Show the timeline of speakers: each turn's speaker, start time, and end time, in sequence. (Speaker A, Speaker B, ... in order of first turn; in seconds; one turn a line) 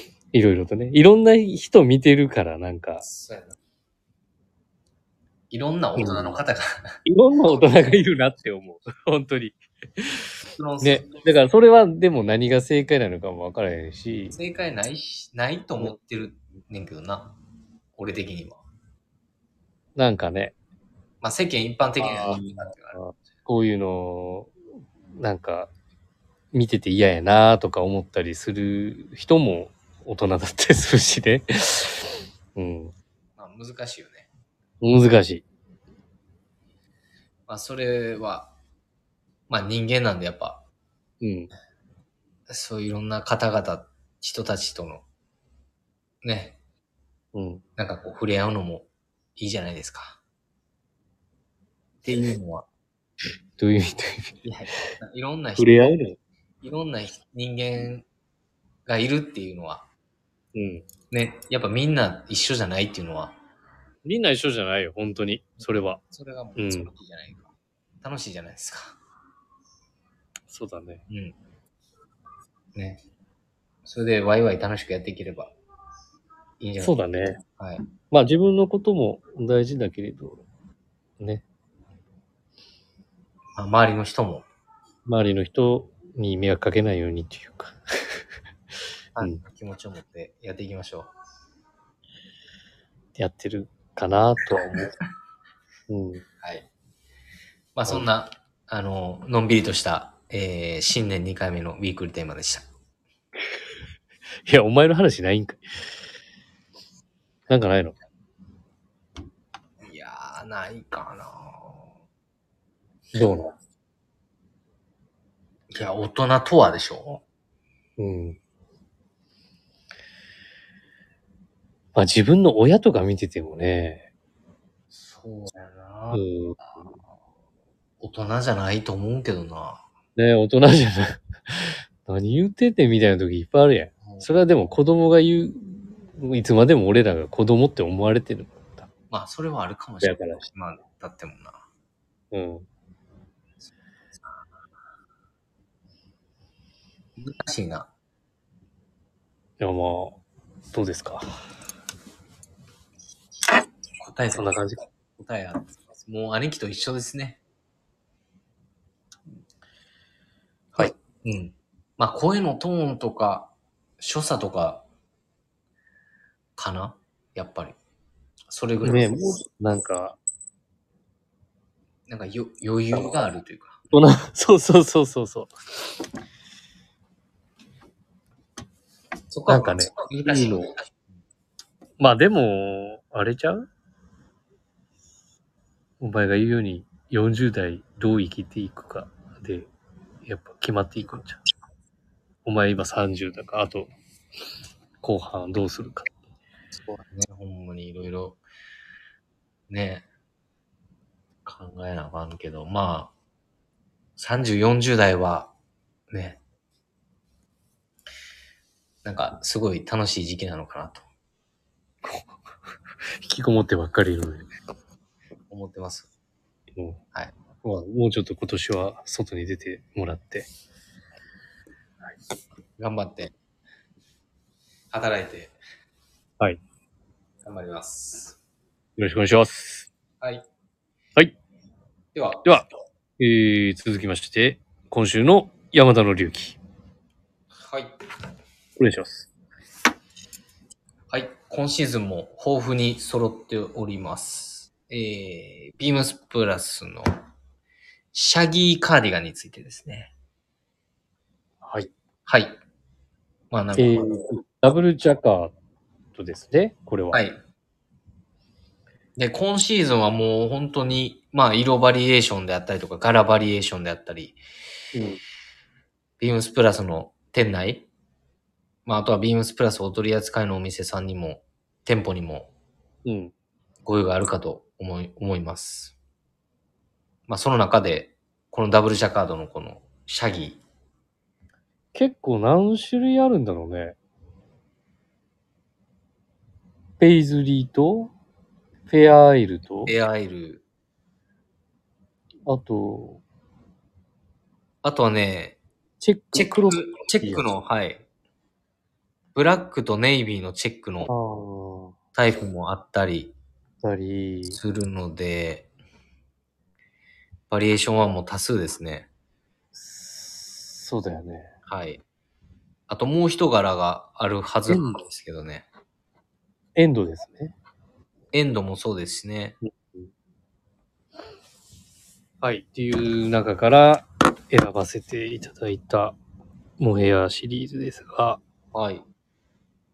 Speaker A: 0.3-3.0
Speaker B: 3.0-3.6
Speaker B: 5.5-6.8
Speaker A: 6.0-6.4
Speaker A: 7.1-10.3
Speaker B: 7.6-7.9
Speaker B: 10.6-11.1
Speaker A: 10.8-14.4
Speaker B: 14.3-17.3
Speaker B: 18.0-18.6
Speaker A: 19.9-20.6
Speaker B: 21.2-23.0
Speaker A: 22.0-24.5
Speaker A: 25.1-25.7
Speaker A: 26.5-32.9
Speaker B: 33.4-34.3
Speaker A: 34.8-35.4
Speaker B: 37.5-38.5
Speaker B: 39.5-40.6
Speaker A: 41.2-41.5
Speaker B: 42.5-45.0
Speaker B: 46.2-46.6
Speaker A: 47.3-47.6
Speaker B: 47.8-50.2
Speaker B: 52.0-52.7
Speaker A: 53.6-54.3
Speaker B: 54.4-56.0
Speaker A: 55.6-56.2
Speaker B: 56.6-58.1
Speaker B: 58.9-59.9
Speaker A: 60.5-60.9
Speaker B: 61.1-63.4
Speaker A: 64.0-66.0
Speaker B: 65.6-67.5
Speaker A: 66.6-66.9
Speaker B: 68.0-69.0
Speaker A: 70.5-71.0
Speaker B: 71.1-71.3
Speaker B: 72.7-73.0
Speaker B: 73.8-75.5
Speaker B: 76.6-77.0
Speaker A: 76.8-77.4
Speaker B: 77.6-77.8
Speaker A: 78.1-80.4
Speaker A: 81.2-81.4
Speaker B: 83.6-84.5
Speaker A: 85.0-87.8
Speaker B: 89.2-91.1
Speaker A: 93.2-94.9
Speaker A: 95.9-96.2
Speaker B: 96.4-96.7
Speaker B: 97.7-102.7
Speaker A: 104.5-105.6
Speaker A: 107.5-107.9
Speaker B: 109.8-111.8
Speaker A: 113.1-113.5
Speaker B: 115.7-117.2
Speaker A: 118.0-118.4
Speaker A: 121.9-124.0
Speaker B: 124.9-126.2
Speaker A: 126.1-126.6
Speaker B: 128.0-129.8
Speaker A: 130.2-138.9
Speaker B: 134.0-134.7
Speaker B: 139.1-141.6
Speaker A: 140.0-140.4
Speaker A: 142.3-142.7
Speaker B: 147.2-147.9
Speaker A: 149.6-150.2
Speaker A: 150.7-151.2
Speaker B: 154.0-154.6
Speaker A: 154.3-154.8
Speaker B: 155.2-157.4
Speaker B: 160.8-164.8
Speaker B: 166.6-167.8
Speaker B: 168.5-169.2
Speaker A: 168.8-170.2
Speaker B: 172.1-173.8
Speaker A: 172.9-173.2
Speaker A: 173.9-175.5
Speaker B: 179.3-180.9
Speaker A: 179.5-180.7
Speaker A: 182.0-183.7
Speaker A: 186.0-189.7
Speaker A: 190.2-191.4
Speaker A: 192.4-193.9
Speaker A: 195.0-196.1
Speaker B: 196.9-198.4
Speaker B: 199.7-200.1
Speaker B: 201.4-203.1
Speaker B: 204.2-205.5
Speaker B: 206.1-206.4
Speaker B: 209.0-211.1
Speaker A: 212.0-212.3
Speaker A: 213.2-214.5
Speaker B: 215.5-216.1
Speaker A: 217.6-220.5
Speaker B: 222.8-223.3
Speaker B: 224.9-225.6
Speaker B: 227.4-228.4
Speaker A: 229.0-229.9
Speaker B: 232.1-232.6
Speaker A: 233.2-236.6
Speaker B: 237.7-237.9
Speaker A: 238.8-239.3
Speaker B: 241.1-247.1
Speaker B: 248.1-250.1
Speaker A: 251.6-251.9
Speaker B: 252.2-252.6
Speaker B: 253.5-254.1
Speaker A: 253.8-255.5
Speaker A: 256.1-257.2
Speaker B: 257.1-257.4
Speaker B: 259.1-264.4
Speaker A: 264.9-265.2
Speaker B: 266.2-267.9
Speaker B: 268.9-272.5
Speaker A: 273.1-273.3
Speaker B: 273.9-275.9
Speaker B: 277.3-280.6
Speaker A: 281.9-284.0
Speaker A: 287.0-288.1
Speaker A: 288.9-289.9
Speaker B: 289.9-290.6
Speaker A: 292.4-293.2
Speaker B: 294.8-295.6
Speaker A: 296.0-297.4
Speaker B: 296.3-298.1
Speaker B: 299.4-301.1
Speaker A: 301.1-301.9
Speaker B: 302.1-303.4
Speaker A: 303.8-304.6
Speaker B: 304.5-305.7
Speaker B: 307.5-309.1
Speaker A: 309.7-311.5
Speaker B: 311.7-312.0
Speaker B: 312.9-315.7
Speaker A: 314.7-315.0
Speaker A: 316.8-317.6
Speaker B: 318.3-319.6
Speaker A: 319.6-320.1
Speaker A: 322.4-326.2
Speaker A: 326.8-328.4
Speaker B: 328.7-329.1